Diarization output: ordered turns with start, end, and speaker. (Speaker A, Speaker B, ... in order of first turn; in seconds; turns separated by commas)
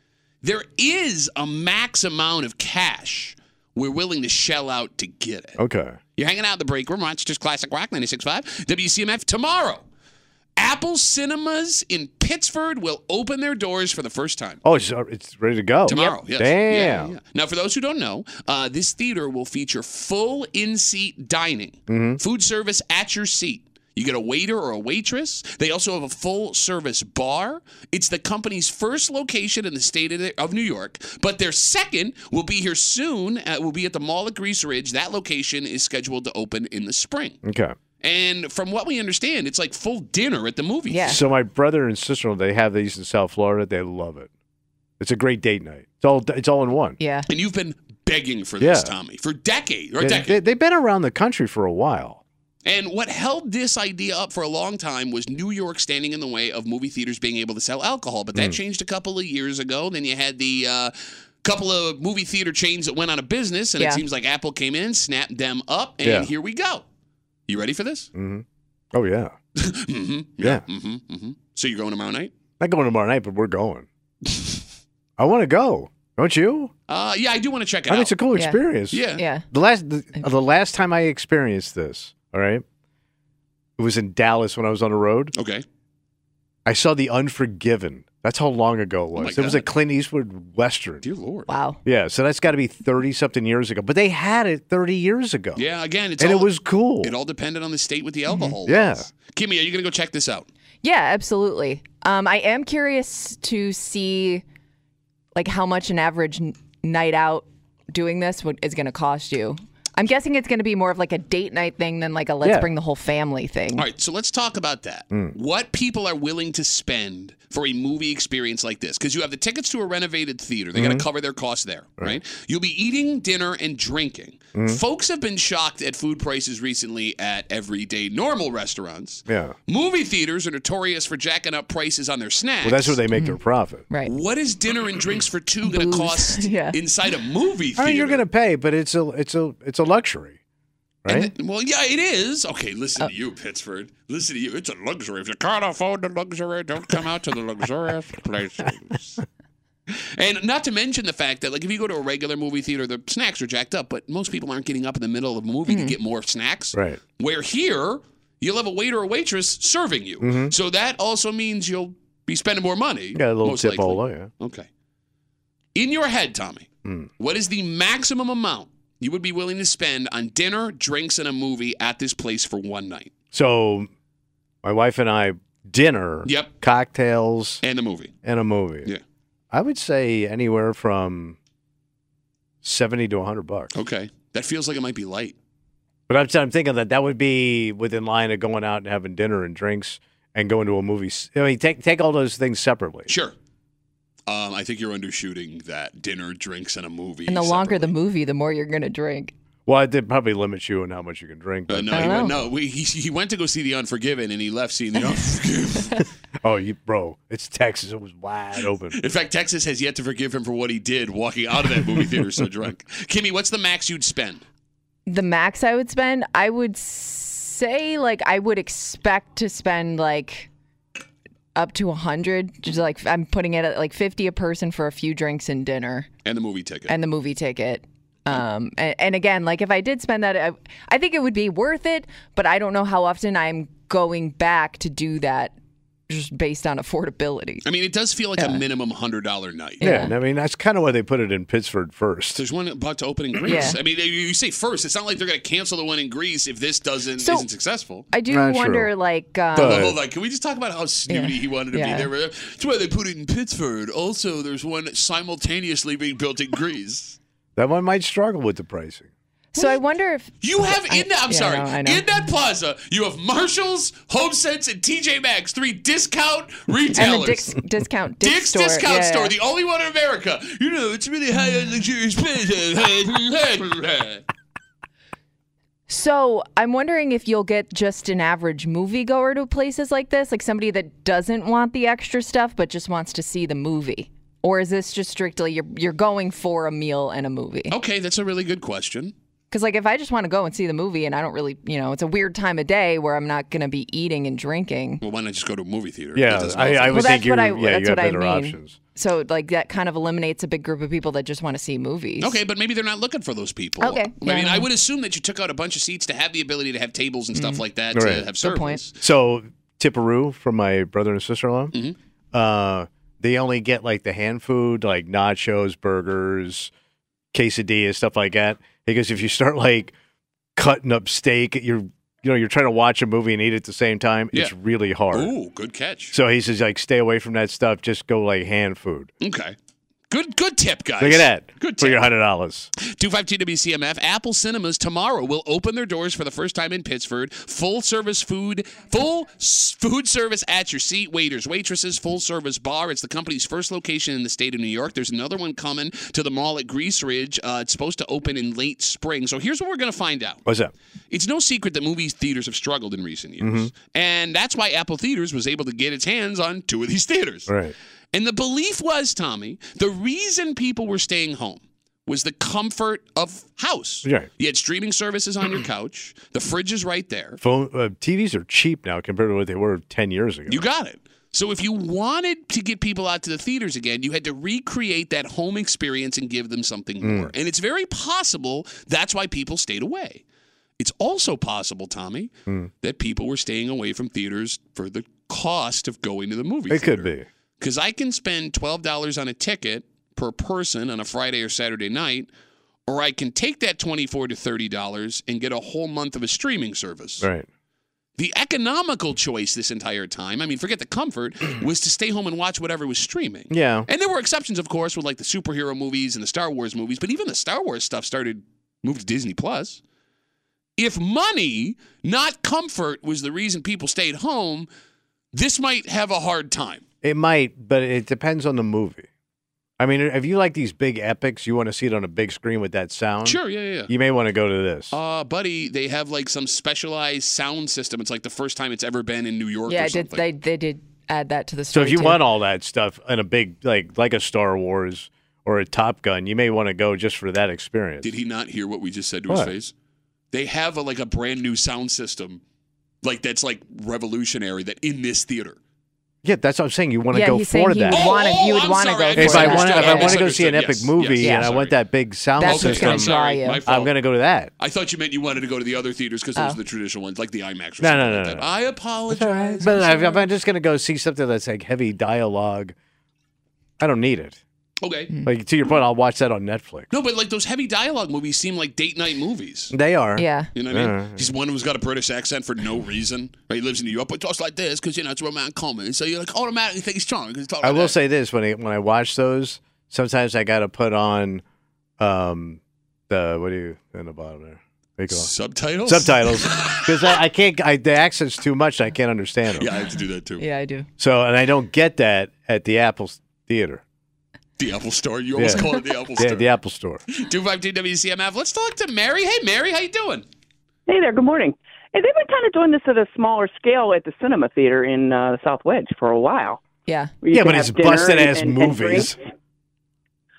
Speaker A: 0.4-5.6, Speaker B: 5.6-6.0, Speaker A: 6.2-9.8, Speaker A: 10.6-14.6, Speaker B: 14.6-17.1, Speaker A: 15.8-37.4, Speaker B: 21.9-22.2, Speaker B: 37.4-37.8, Speaker A: 38.0-41.2, Speaker C: 40.9-41.2, Speaker B: 41.0-44.3, Speaker B: 45.0-47.0, Speaker C: 47.0-47.3, Speaker A: 47.3-50.4, Speaker B: 48.6-48.9, Speaker B: 50.0-52.2, Speaker A: 52.6-66.8, Speaker B: 66.0-66.3, Speaker A: 67.5-68.1, Speaker B: 68.1-69.3, Speaker A: 69.6-72.3, Speaker B: 72.6-73.9, Speaker B: 75.2-76.7, Speaker A: 76.9-78.1, Speaker B: 77.9-82.6, Speaker C: 78.3-78.6, Speaker A: 78.9-79.2, Speaker C: 79.1-79.4, Speaker B: 83.8-85.3, Speaker A: 85.3-85.6, Speaker B: 86.7-91.0, Speaker A: 89.2-89.7, Speaker A: 91.0-91.5, Speaker C: 91.5-91.8, Speaker B: 91.8-95.6, Speaker A: 95.5-100.5, Speaker B: 96.2-97.1, Speaker C: 98.3-98.5, Speaker B: 98.7-99.1, Speaker C: 100.8-104.4, Speaker C: 105.3-113.8, Speaker B: 112.4-112.7, Speaker A: 113.7-133.0, Speaker B: 120.7-121.0, Speaker B: 124.5-124.8, Speaker B: 129.3-129.6, Speaker B: 132.6-133.8, Speaker C: 133.1-133.4, Speaker A: 134.0-138.2, Speaker C: 135.6-136.8, Speaker B: 137.8-140.4, Speaker B: 141.0-141.3, Speaker A: 141.1-149.2, Speaker A: 149.9-164.7, Speaker C: 155.7-155.9, Speaker B: 156.7-157.0, Speaker B: 160.2-160.5, Speaker B: 163.1-164.3, Speaker A: 165.7-173.1, Speaker B: 166.8-167.1, Speaker B: 173.3-173.9, Speaker B: 174.6-177.6, Speaker A: 176.2-176.5, Speaker A: 177.6-178.1, Speaker B: 178.2-178.9, Speaker B: 179.5-181.4, Speaker B: 182.6-183.7, Speaker A: 183.7-185.3, Speaker B: 186.1-193.1, Speaker A: 193.1-193.3, Speaker A: 194.3-197.9, Speaker C: 197.3-199.3, Speaker B: 199.7-202.3, Speaker A: 201.7-206.0, Speaker C: 201.9-202.3, Speaker B: 206.4-209.0, Speaker A: 208.9-214.4, Speaker C: 215.1-220.5, Speaker C: 221.5-226.1, Speaker A: 226.2-226.9, Speaker C: 226.9-235.5, Speaker C: 236.1-237.6, Speaker A: 237.6-239.9, Speaker C: 239.8-240.1, Speaker B: 239.8-242.4, Speaker A: 242.3-248.1, Speaker C: 243.5-243.8, Speaker C: 247.2-247.4, Speaker C: 248.1-249.9, Speaker B: 248.3-248.9, Speaker B: 249.5-250.0, Speaker A: 249.5-257.2, Speaker C: 251.1-252.1, Speaker B: 257.6-259.1, Speaker C: 259.5-262.0, Speaker A: 260.4-267.5, Speaker C: 266.9-269.3, Speaker A: 268.2-274.2, Speaker C: 275.9-287.7, Speaker A: 287.7-289.1, Speaker C: 289.5-295.0, Speaker A: 295.0-297.1, Speaker B: 296.1-298.8, Speaker C: 296.9-302.4, Speaker A: 302.2-309.0, Speaker C: 303.8-304.7, Speaker C: 307.3-307.6, Speaker B: 307.9-308.2, Speaker C: 308.4-308.8, Speaker B: 309.0-311.7, Speaker B: 312.3-316.7, Speaker B: 317.3-319.9, Speaker B: 320.6-325.3, Speaker A: 325.1-326.1, Speaker B: 326.1-329.1, Speaker A: 329.2-329.6, Speaker A: 330.1-332.1, Speaker B: 331.0-332.7, Speaker A: 332.8-350.4, Speaker B: 350.4-350.7, Speaker A: 351.1-357.5, Speaker B: 353.4-353.7, Speaker B: 357.5-357.7, Speaker A: 358.1-367.4, Speaker B: 367.4-370.6, Speaker A: 370.5-380.2, Speaker B: 377.0-377.3, Speaker A: 380.8-392.3, Speaker B: 386.7-387.3, Speaker A: 392.9-397.3, Speaker B: 397.2-397.5, Speaker A: 398.2-409.8, Speaker B: 403.5-403.9, Speaker A: 410.8-414.7, Speaker A: 415.3-416.8, Speaker B: 417.0-419.1, Speaker B: 419.8-424.9, Speaker A: 423.2-423.9, Speaker A: 424.9-430.2, Speaker C: 429.7-432.2, Speaker B: 431.7-438.1, Speaker A: 438.0-439.7, Speaker B: 439.3-439.5, Speaker A: 440.3-442.4, Speaker A: 443.0-445.6, Speaker B: 446.2-448.2, Speaker C: 447.1-450.2, Speaker A: 447.9-451.8, Speaker B: 449.1-454.5, Speaker C: 451.2-451.5, Speaker C: 452.4-453.6, Speaker A: 452.4-453.9, Speaker A: 454.6-460.0, Speaker B: 457.8-458.5, Speaker B: 459.1-462.7, Speaker C: 459.6-460.1, Speaker B: 463.8-464.4, Speaker A: 464.8-465.1, Speaker B: 465.2-466.9, Speaker A: 466.9-469.7, Speaker B: 469.7-471.3, Speaker C: 470.2-470.5, Speaker A: 470.5-477.9, Speaker B: 477.6-481.4, Speaker B: 482.0-485.3, Speaker A: 485.1-487.2, Speaker B: 485.8-489.7, Speaker A: 489.6-490.4, Speaker C: 490.4-490.9, Speaker B: 491.0-493.8, Speaker A: 494.6-496.5, Speaker B: 495.4-497.0, Speaker A: 497.1-500.2, Speaker D: 500.9-506.6, Speaker C: 506.9-507.1, Speaker D: 507.2-509.2, Speaker B: 507.3-509.1